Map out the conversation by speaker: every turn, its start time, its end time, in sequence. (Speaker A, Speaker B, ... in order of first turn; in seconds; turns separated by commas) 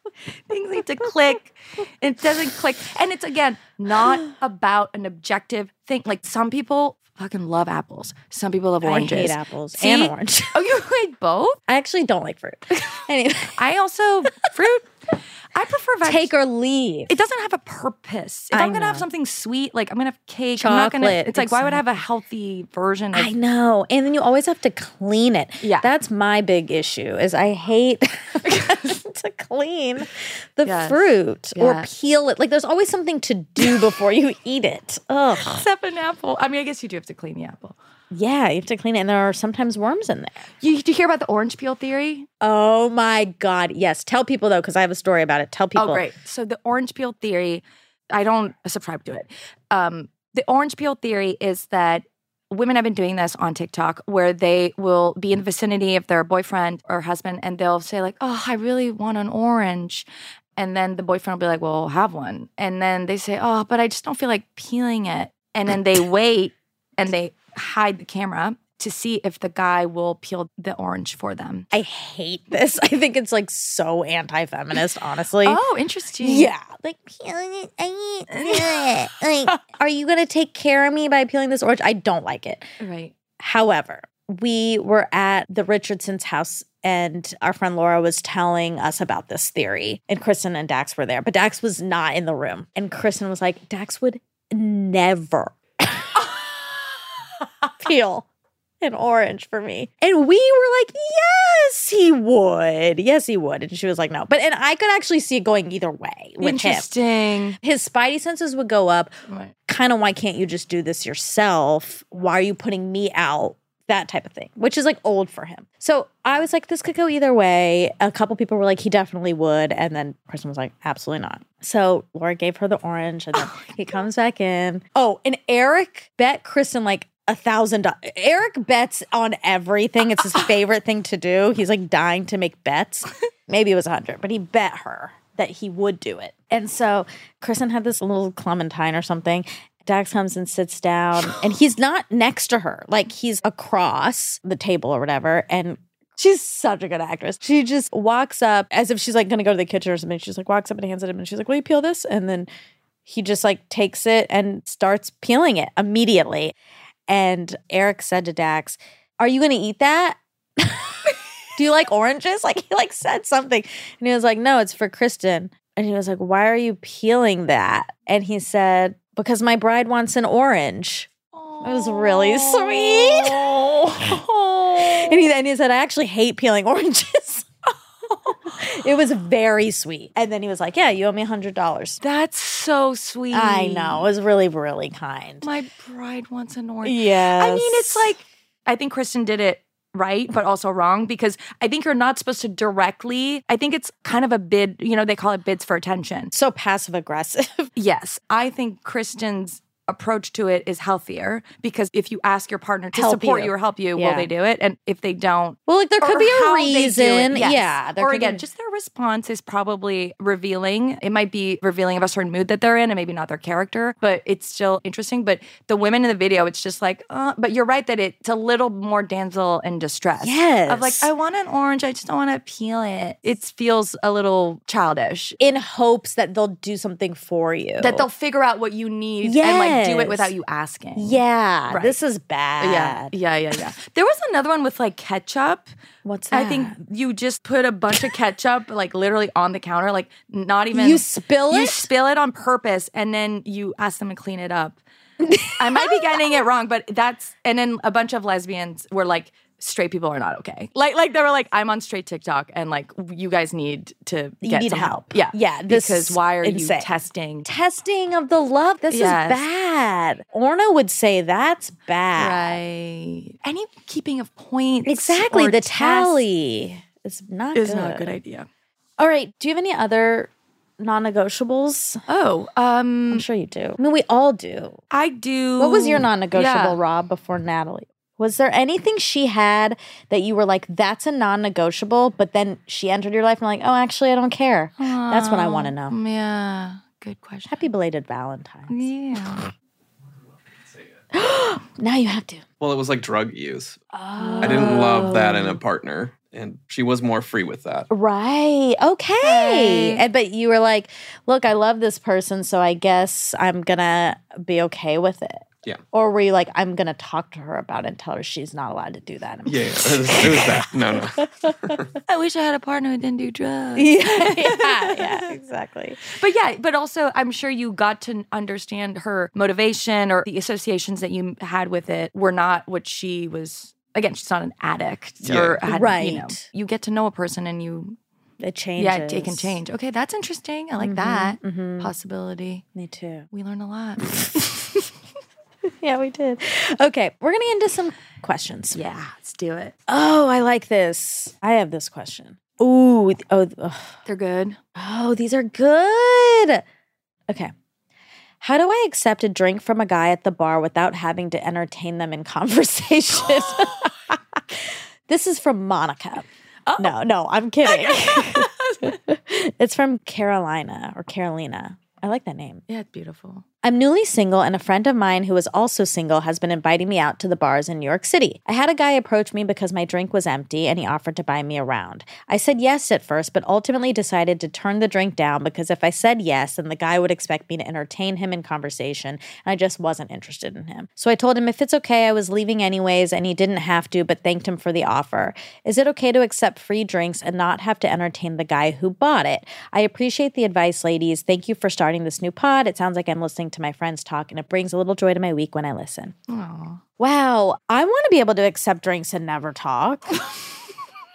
Speaker A: 0.5-11.6, Speaker B: 8.8-10.6, Speaker B: 11.7-13.6, Speaker A: 13.6-14.9, Speaker A: 15.5-16.3, Speaker B: 16.0-17.2, Speaker A: 17.1-23.3, Speaker B: 18.5-19.1, Speaker B: 20.6-21.9, Speaker B: 23.1-35.6, Speaker A: 25.6-25.9, Speaker A: 30.6-31.9, Speaker A: 35.4-37.8, Speaker B: 38.1-40.5, Speaker A: 40.6-42.3, Speaker B: 42.4-46.1, Speaker A: 45.8-71.7, Speaker B: 71.7-75.6, Speaker A: 75.4-76.5, Speaker B: 76.2-82.7, Speaker A: 78.3-78.9, Speaker A: 82.8-83.1, Speaker B: 83.4-96.3, Speaker B: 97.8-98.3, Speaker B: 98.8-106.9, Speaker A: 106.4-107.6, Speaker B: 107.6-109.1, Speaker A: 109.3-109.5, Speaker B: 109.7-152.5, Speaker A: 123.4-123.7, Speaker B: 153.1-156.5, Speaker B: 157.1-171.1, Speaker A: 171.3-175.3, Speaker B: 171.6-182.0, Speaker A: 182.0-184.1, Speaker B: 183.3-185.5, Speaker A: 185.4-196.3, Speaker B: 186.8-188.2, Speaker B: 196.3-197.7, Speaker A: 197.8-225.4, Speaker B: 202.9-204.3, Speaker B: 205.7-208.4, Speaker B: 220.2-221.1, Speaker B: 225.4-228.1, Speaker A: 227.8-232.0, Speaker B: 229.2-230.3, Speaker B: 231.0-233.1, Speaker A: 232.6-235.7, Speaker B: 236.1-236.8, Speaker A: 236.3-244.8, Speaker B: 240.7-241.9, Speaker B: 245.2-246.4, Speaker A: 245.6-257.5, Speaker B: 254.4-256.9, Speaker B: 257.4-262.6, Speaker A: 258.9-259.4, Speaker A: 262.2-266.3, Speaker B: 264.9-268.1, Speaker A: 267.6-268.5, Speaker B: 269.0-272.0, Speaker A: 272.1-273.2, Speaker B: 273.1-274.8, Speaker A: 274.9-276.8, Speaker B: 275.6-286.0, Speaker A: 284.8-287.6, Speaker B: 287.5-288.9, Speaker A: 288.7-289.5, Speaker B: 291.1-292.4, Speaker C: 292.6-293.8, Speaker B: 293.9-295.6, Speaker A: 294.2-295.1, Speaker C: 294.4-297.9, Speaker B: 297.9-311.8, Speaker A: 299.2-300.0, Speaker C: 309.5-311.9, Speaker A: 312.1-315.3, Speaker B: 313.8-316.0, Speaker A: 316.1-328.0, Speaker C: 325.2-325.6, Speaker B: 325.7-326.4, Speaker B: 328.4-329.6, Speaker A: 328.8-332.6, Speaker B: 330.8-331.9, Speaker B: 332.8-333.3, Speaker A: 333.3-334.6, Speaker B: 334.0-334.6, Speaker B: 335.8-338.8, Speaker A: 338.7-339.7, Speaker B: 339.9-343.9, Speaker A: 344.1-344.6, Speaker B: 344.8-346.6, Speaker B: 348.4-356.3, Speaker A: 356.7-356.9, Speaker B: 356.8-362.6, Speaker A: 357.6-359.0, Speaker A: 362.7-363.4, Speaker B: 363.6-396.1, Speaker A: 396.3-396.8, Speaker B: 397.0-400.2